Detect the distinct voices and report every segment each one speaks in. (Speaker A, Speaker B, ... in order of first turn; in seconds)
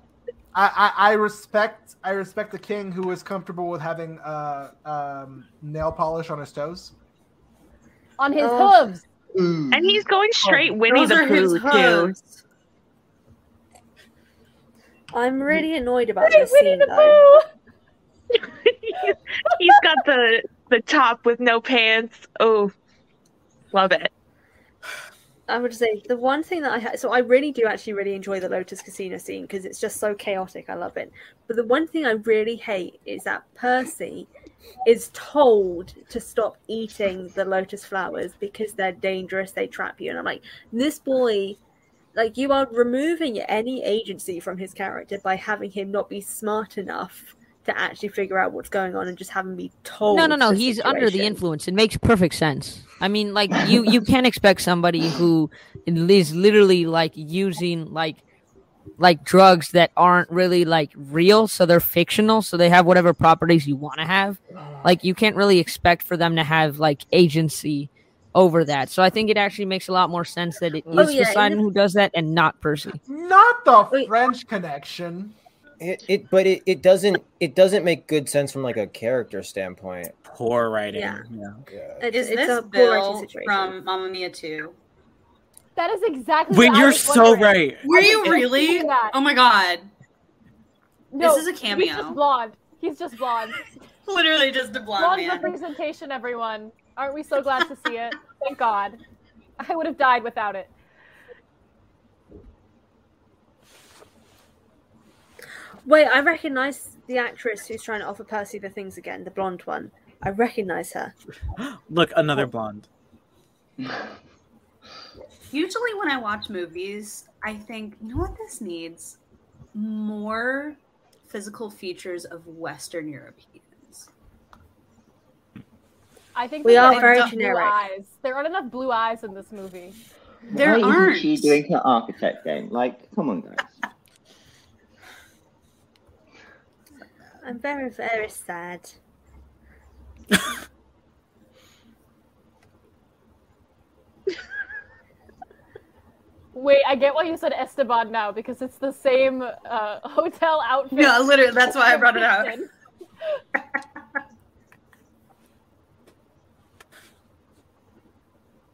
Speaker A: 0.5-6.9, 10.5-10.7, 64.5-65.0, 73.1-75.3
Speaker B: 8.2-9.0, 16.2-17.4, 85.8-89.2, 91.1-93.7, 95.0-99.0, 99.6-100.7, 126.3-129.9, 146.5-152.7
Speaker C: 8.4-8.9, 15.1-17.3, 25.5-34.3, 34.9-41.6, 42.1-51.4, 71.0-71.6, 80.9-81.2, 82.0-83.8, 105.8-111.1, 126.6-127.8, 137.4-138.9
Speaker D: 9.7-10.0, 113.8-114.1, 130.5-133.8
Speaker E: 9.7-12.2, 18.5-22.7, 23.7-24.1
Speaker F: 10.9-12.4, 82.1-84.8, 87.8-89.9, 91.2-92.2, 94.0-95.6, 115.5-119.2, 119.7-124.1, 126.8-127.4, 130.5-131.6, 150.9-152.6
Speaker G: 50.1-58.2, 59.0-73.0
Speaker H: 75.8-80.1, 81.7-82.0
Speaker I: 80.3-81.6, 86.5-88.2, 111.6-112.9